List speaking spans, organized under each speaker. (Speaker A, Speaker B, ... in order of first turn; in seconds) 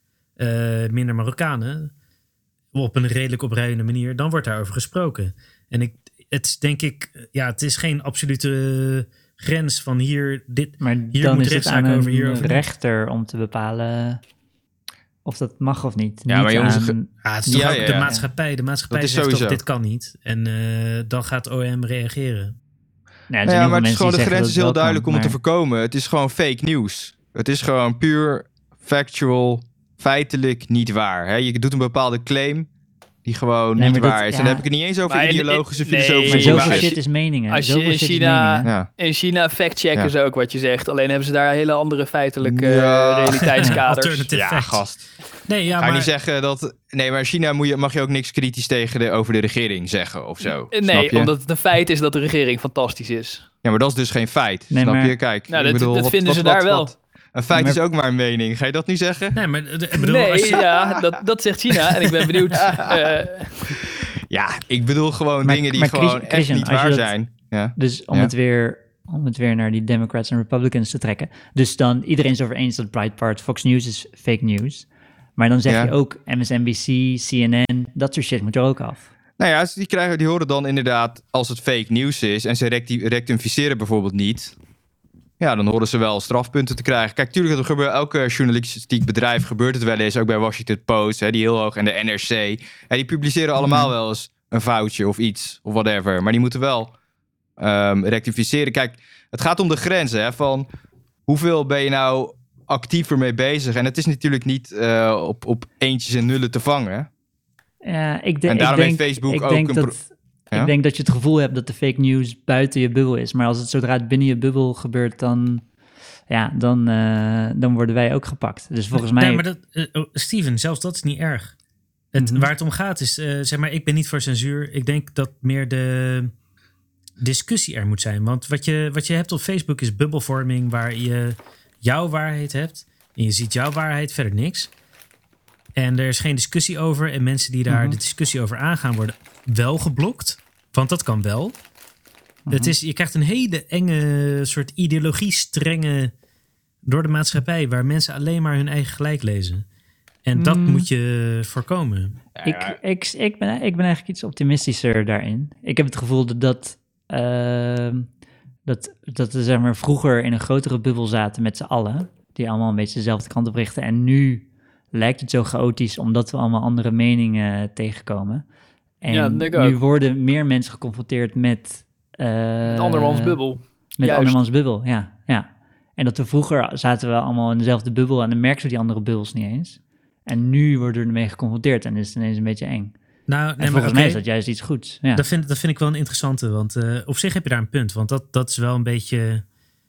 Speaker A: 0.4-1.9, 2.7-12.6, 17.2-22.5, 43.6-46.1, 59.4-60.7, 118.9-121.6, 122.1-126.3, 127.2-134.7, 135.8-141.6, 142.5-146.1, 146.8-149.6, 150.2-152.2, 183.3-184.2, 185.2-189.4
Speaker B: 10.8-14.2, 15.2-18.2, 23.3-25.4, 33.8-34.6, 36.3-38.7, 54.7-55.1, 57.5-57.8, 65.4-67.1, 67.8-79.1, 93.6-93.9, 107.8-115.7, 116.3-119.5, 122.2-122.5, 137.7-138.0, 142.5-142.8, 150.3-150.9, 152.4-158.1, 158.7-168.4, 169.0-173.4, 174.0-182.9, 183.6-185.2
Speaker C: 16.3-17.0, 17.5-18.2, 18.9-19.6, 23.4-32.7, 33.2-36.9, 38.6-38.9, 42.4-43.6, 44.3-45.0, 45.8-51.3, 53.6-59.4, 62.5-63.0, 64.2-68.3, 75.7-75.9, 79.4-84.6, 85.4-96.9, 97.6-100.7, 101.3-107.1, 108.5-110.0, 152.4-152.8
Speaker D: 35.1-44.3, 50.7-53.5, 55.5-56.9, 60.0-63.8, 169.1-169.8, 172.7-174.4